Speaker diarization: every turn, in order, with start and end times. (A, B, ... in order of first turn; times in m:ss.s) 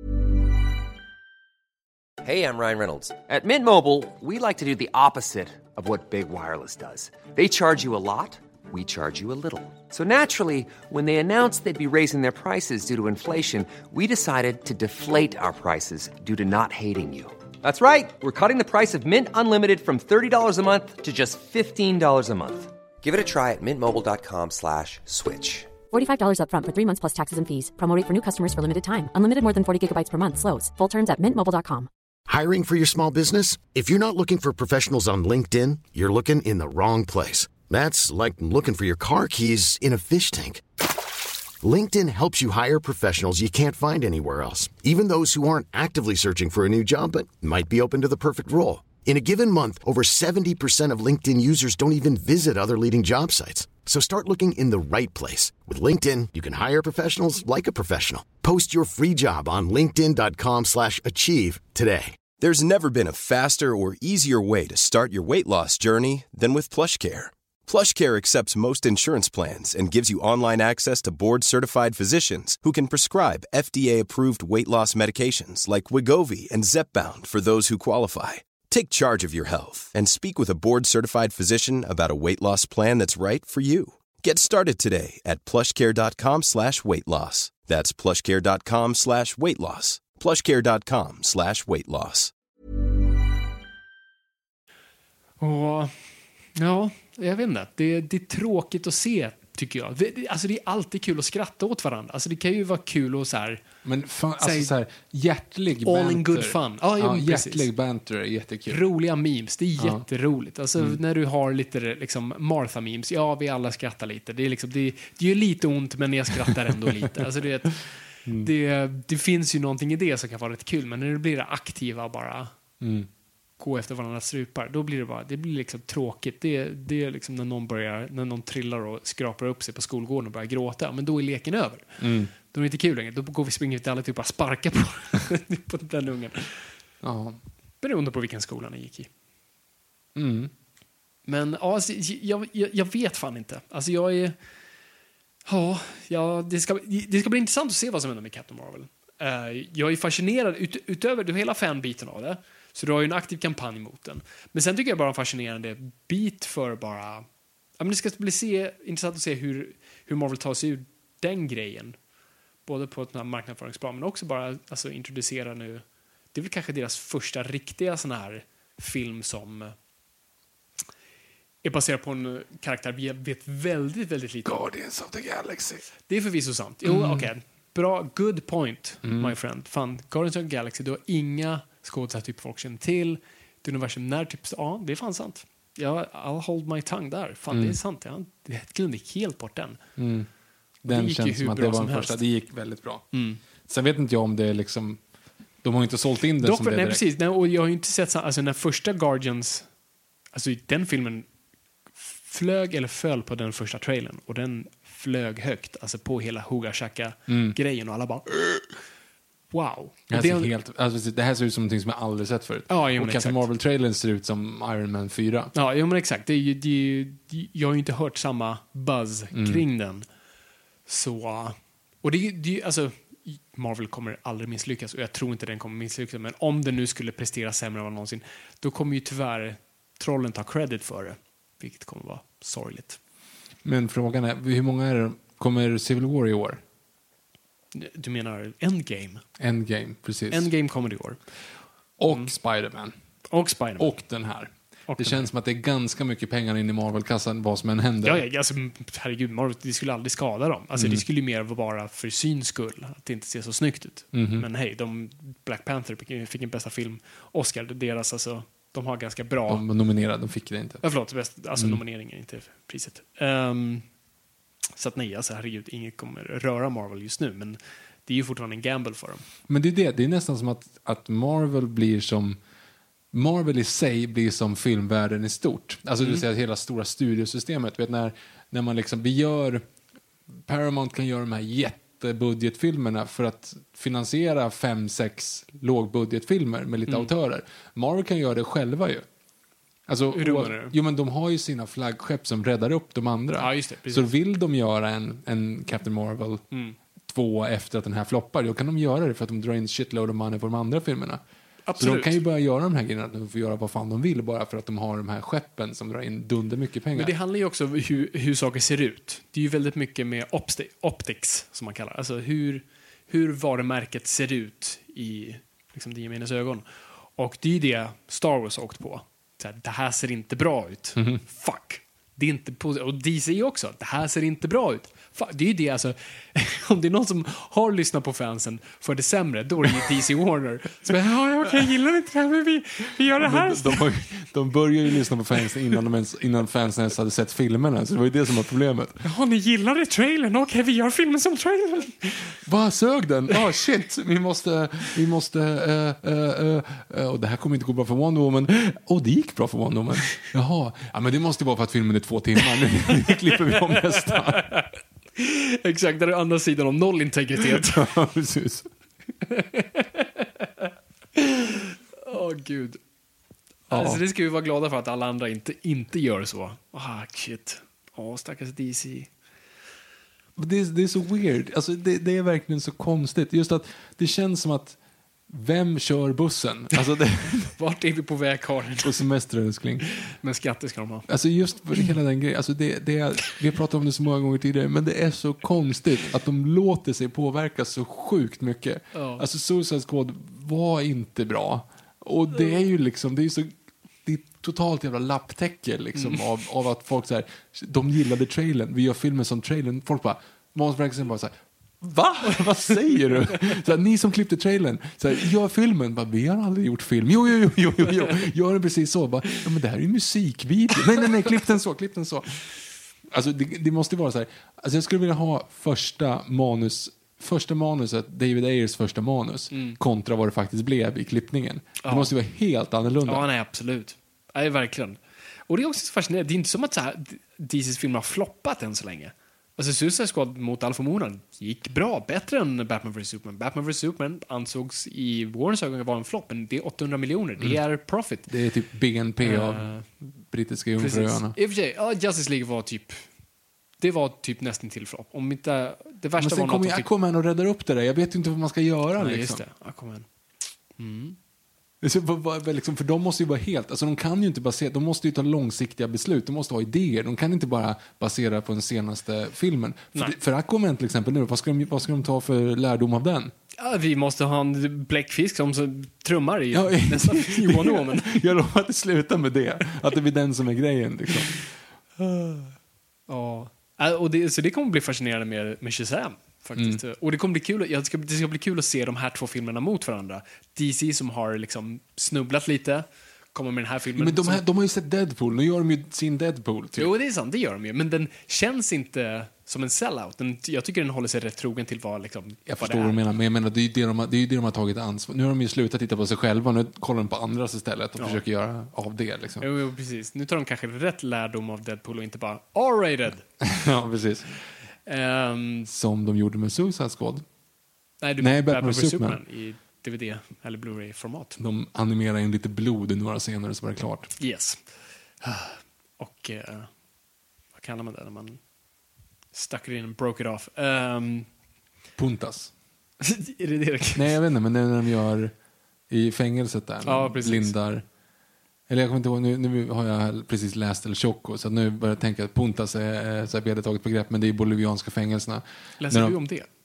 0:02.2-0:25.7 A
0:25.9-0:31.9 B
0:32.3-0:40.6 C
0:41.6-1:02.2 C
1:02.4-1:32.3 D
1:35.4-1:43.6 E
1:43.8-1:48.8 F
1:44.4-1:44.7 E
1:45.8-1:47.7 E
1:48.7-2:02.5 E
1:49.8-1:50.0 F
1:58.2-1:58.5 F
2:02.8-2:03.1 F
2:03.6-2:16.7 E
2:12.0-2:12.3 F
2:17.0-2:17.4 F
2:17.8-2:19.1 E
2:20.1-2:20.5 F
2:21.2-2:24.4 E
2:25.4-2:37.2 E
2:37.8-2:42.0 E
2:42.6-2:49.7 E
2:51.6-2:54.6 E
2:54.4-2:55.9 F
2:56.1-3:09.8 E
2:56.8-2:57.3 F
2:59.0-2:59.4 F
3:07.5-3:07.8 F
3:10.0-3:10.3 F
3:10.8-3:13.1 F
3:10.9-3:12.2 E
3:13.1-3:13.4 E
3:13.6-3:15.0 F
3:15.6-3:17.0 F
3:16.4-3:19.7 E
3:20.3-3:21.2 E
3:22.0-3:28.6 E
3:27.3-3:27.6 F
3:29.5-3:30.5 E
3:30.1-3:35.5 F
3:32.7-3:33.5 E
3:35.5-3:40.0 E
3:39.3-3:39.6 F
3:40.8-3:53.0 E
3:53.6-3:56.6 F
3:57.7-3:59.2 E
3:59.4-4:00.5 F
4:00.3-4:01.3 E
4:02.0-4:02.9 F
4:03.3-4:03.9 E
4:03.8-4:08.2 F
4:04.9-4:05.3 E
4:08.0-4:19.6 E
4:10.7-4:11.0 F
4:14.1-4:14.4 F
4:19.5-4:20.8 F
4:20.8-4:23.8 E
4:21.5-4:21.8 F
4:24.8-4:29.2 E
4:29.5-4:32.4 F
4:33.1-4:39.6 F
4:40.4-4:49.0 F
4:49.9-4:56.4 F
4:50.1-4:50.8 E
4:53.4-4:54.1 E
4:56.5-4:56.8 E
4:57.0-5:01.2 F
5:01.6-5:02.2 E
5:01.8-5:07.1 F
5:06.9-5:33.9 E
5:33.2-5:39.0 F
5:39.0-5:42.4 E
5:42.4-5:54.5 F
5:53.5-5:57.8 E
5:57.4-5:58.7 F
5:59.2-6:02.8 E
6:03.7-6:09.1 E
6:03.7-6:04.0 F
6:10.4-6:17.6 F
6:17.6-6:19.0 E
6:18.8-6:19.8 F
6:19.8-6:21.1 E
6:21.1-6:52.4 F
6:28.9-6:29.2 E
6:35.9-6:36.2 E
6:53.0-7:03.3 F
6:59.5-6:59.8 E
7:01.8-7:02.1 E
7:03.0-7:18.3 E
7:18.3-7:21.4 F
7:19.2-7:19.9 E
7:20.8-7:23.1 E
7:23.8-7:26.9 E
7:26.2-7:29.4 F
7:29.0-7:30.1 E
7:30.7-7:31.2 E
7:31.8-7:43.3 F
7:43.6-7:48.2 E
7:46.5-7:51.4 F
7:52.0-7:52.5 E
7:53.1-8:04.4 E
7:56.6-7:56.8 F
8:04.0-8:06.9 F
8:06.7-8:13.0 E
8:12.5-8:19.5 F
8:19.4-8:23.2 E
8:23.4-8:24.4 F
8:24.8-8:25.7 E
8:25.6-8:27.2 F
8:28.0-8:31.4 E
8:28.2-8:29.2 F
8:31.4-8:34.1 F
8:34.2-8:36.7 E
8:37.5-8:38.4 E
8:39.3-8:41.3 E
8:42.0-8:42.5 F
8:43.0-8:44.2 E
8:43.9-8:45.3 F
8:45.9-8:47.8 F
8:46.8-8:47.6 E
8:48.7-8:56.2 F
8:55.8-8:56.5 E